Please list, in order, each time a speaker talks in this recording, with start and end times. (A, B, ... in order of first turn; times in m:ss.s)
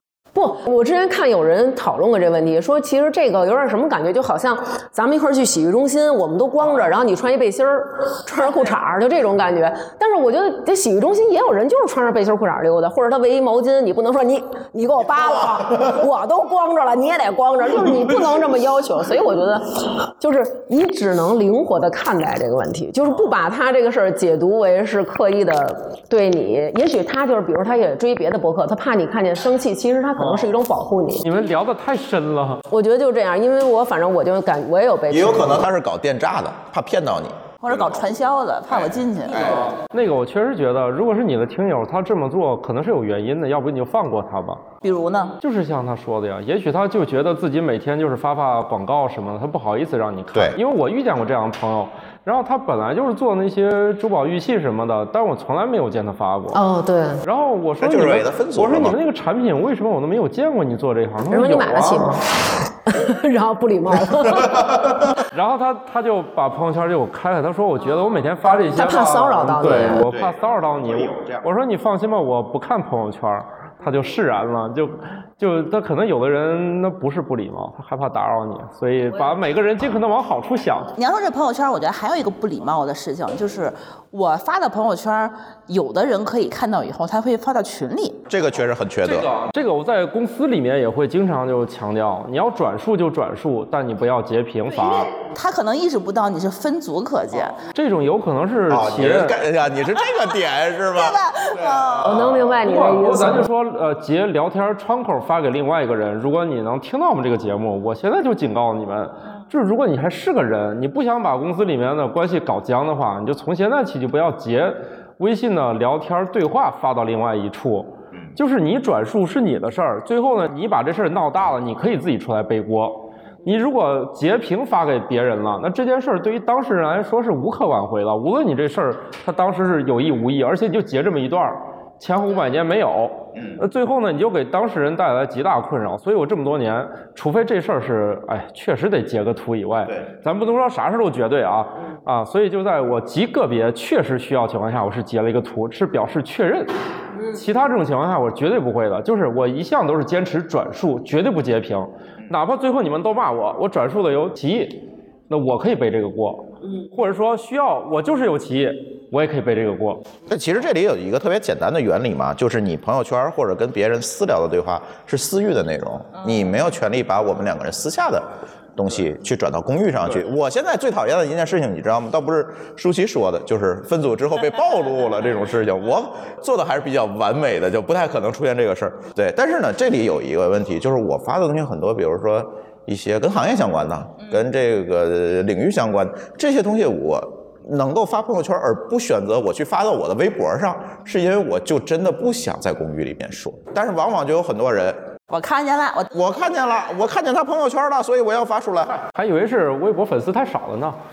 0:00.4-0:31.3 A
0:15.1-0:16.0 B
0:30.2-0:30.5 C
0:31.2-0:32.6 C
0:32.7-0:35.7 A
0:35.1-0:37.7 B
0:37.6-0:39.6 D
0:39.4-0:44.7 C
0:44.8-0:45.4 D
0:45.4-0:56.6 C
0:56.5-0:57.2 A
0:57.2-1:02.1 C
0:57.8-0:59.0 B
1:01.3-1:04.7 A
1:04.3-1:05.1 B
1:05.3-1:20.9 C
1:08.7-1:10.0 A
1:10.0-1:11.5 B
1:21.0-1:28.2 D
1:28.3-1:29.3 B
1:29.0-1:35.1 C
1:34.8-1:37.6 D
1:37.7-1:39.4 C
1:38.7-1:42.2 B
1:40.9-1:42.4 D
1:42.0-1:43.5 A
1:42.6-2:26.7 C
2:13.4-2:13.6 B
2:27.3-2:40.0 C
2:40.3-3:15.1 B
3:15.3-3:16.2 D
3:16.1-3:19.0 B
3:19.1-3:21.0 C